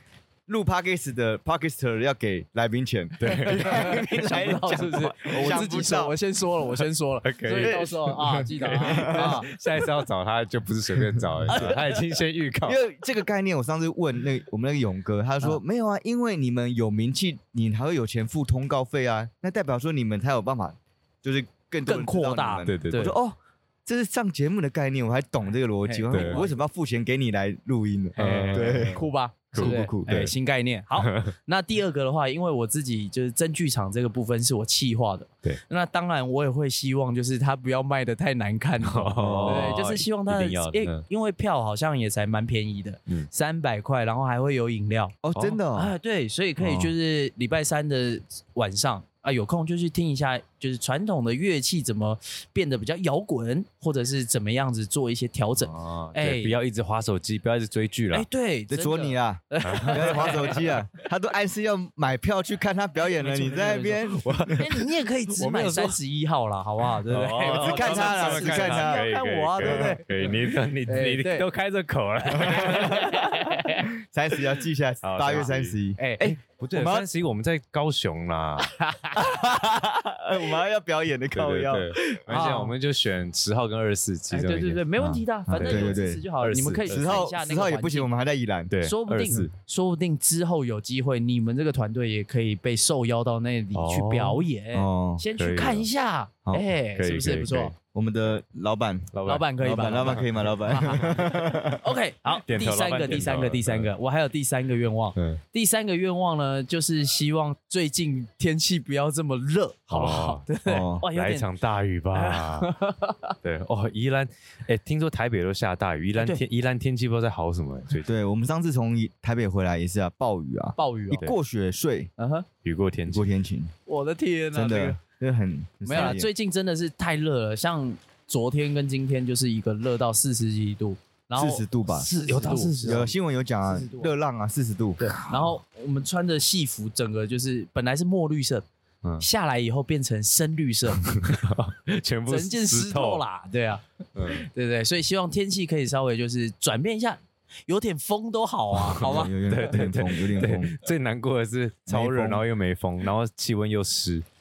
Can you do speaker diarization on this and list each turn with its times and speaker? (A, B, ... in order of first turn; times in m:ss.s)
0:00.5-0:06.2 A
0:03.2-0:03.8 B
0:03.2-0:09.5 C
0:07.2-0:12.8 B
0:07.5-0:09.4 A
0:11.5-0:11.9 C
0:12.6-0:30.3 A
0:21.9-0:23.2 C
0:22.6-0:23.1 B
0:25.8-0:26.6 C
0:26.1-0:26.4 B
0:28.2-0:30.3 B
0:28.2-0:45.2 C
0:31.0-0:31.3 B
0:38.8-0:41.0 B
0:39.2-0:39.8 A
0:45.2-0:45.9 A
0:45.7-0:56.6 C
0:46.6-0:46.9 A
0:55.6-0:58.3 B
0:58.1-1:00.9 C
0:58.7-1:04.7 A
0:59.6-1:00.5 B
1:03.1-1:10.4 C
1:04.1-1:04.7 B
1:05.3-1:06.0 B
1:06.9-1:13.4 B
1:07.4-1:09.0 A
1:09.6-1:09.9 A
1:10.9-1:11.5 C
1:12.3-1:13.9 C
1:12.4-1:13.2 A
1:13.9-1:17.1 A
1:15.0-1:15.8 B
1:16.0-1:16.4 C
1:16.5-1:18.8 B
1:18.8-1:19.2 C
1:19.1-1:21.9 A
1:21.4-1:24.9 B
1:22.0-1:22.7 C
1:24.3-1:28.1 C
1:25.0-1:26.2 A
1:25.5-1:27.2 B
1:26.9-1:28.7 A
1:28.7-1:29.5 B
1:28.8-1:37.7 C
1:33.7-1:34.4 B
1:34.7-1:35.2 A
1:35.4-1:35.9 B
1:36.9-1:37.7 B
1:37.9-1:41.8 A
1:39.1-1:39.5 B
1:39.2-1:51.5 C
1:42.4-1:43.9 B
1:45.2-1:45.4 B
1:49.9-1:50.5 B
1:50.6-1:51.1 A
1:51.1-1:52.7 B
1:52.1-1:53.4 C
1:53.4-1:58.1 B
1:58.0-2:02.1 A
2:00.8-2:01.2 C
2:02.2-2:02.4 C
2:02.6-2:03.3 B
2:03.1-2:03.7 A
2:03.9-2:05.0 C
2:04.5-2:06.3 A
2:05.8-2:13.1 C
2:11.4-2:12.1 A
2:11.9-2:13.1 B
2:12.8-2:15.0 A
2:13.6-2:14.1 C
2:15.1-2:18.6 C
2:19.2-2:21.2 C
2:21.0-2:23.2 B
2:22.3-2:29.8 C
2:24.2-2:24.4 B
2:28.8-2:34.2 B
2:29.0-2:30.8 A
2:31.9-2:32.4 A